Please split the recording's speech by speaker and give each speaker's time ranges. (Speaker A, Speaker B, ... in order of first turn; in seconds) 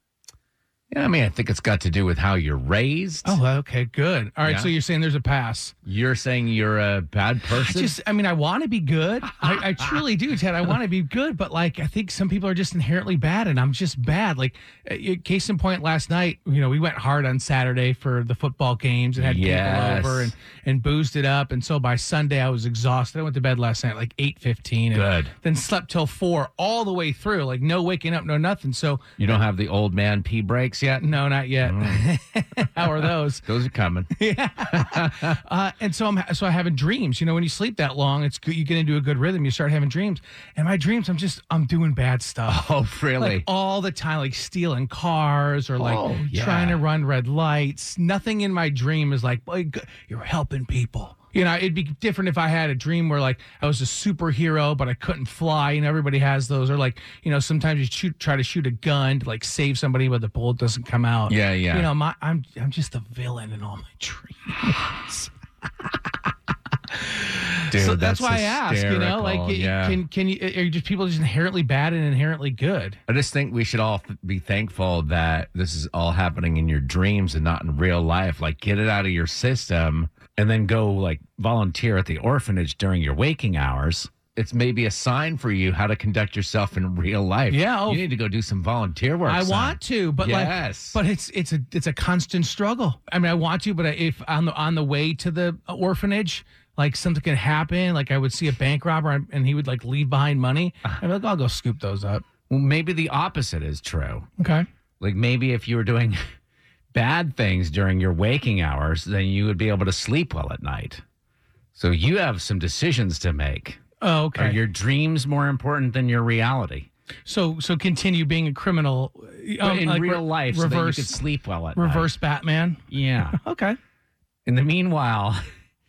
Speaker A: 0.9-3.4, 4.4-4.7, 5.8-8.0, 9.5-10.0, 19.2-20.3, 24.9-25.3, 29.2-31.1, 31.6-32.0, 33.0-34.1, 34.7-35.4, 42.5-43.5, 45.8-46.8, 61.3-61.9, 67.7-70.0, 73.1-91.0, 102.5-104.3, 105.0-106.2, 106.9-111.0, 111.8-113.8, 114.4-116.9, 119.6-122.1, 122.9-123.4, 124.5-125.4
Speaker B: 3.2-5.8, 7.5-29.1, 31.0-33.5, 34.1-42.6, 43.2-65.3, 67.3-73.0, 87.5-88.0, 89.3-102.2, 104.4-104.7, 114.0-114.6, 117.3-121.2, 121.8-122.8, 123.3-123.8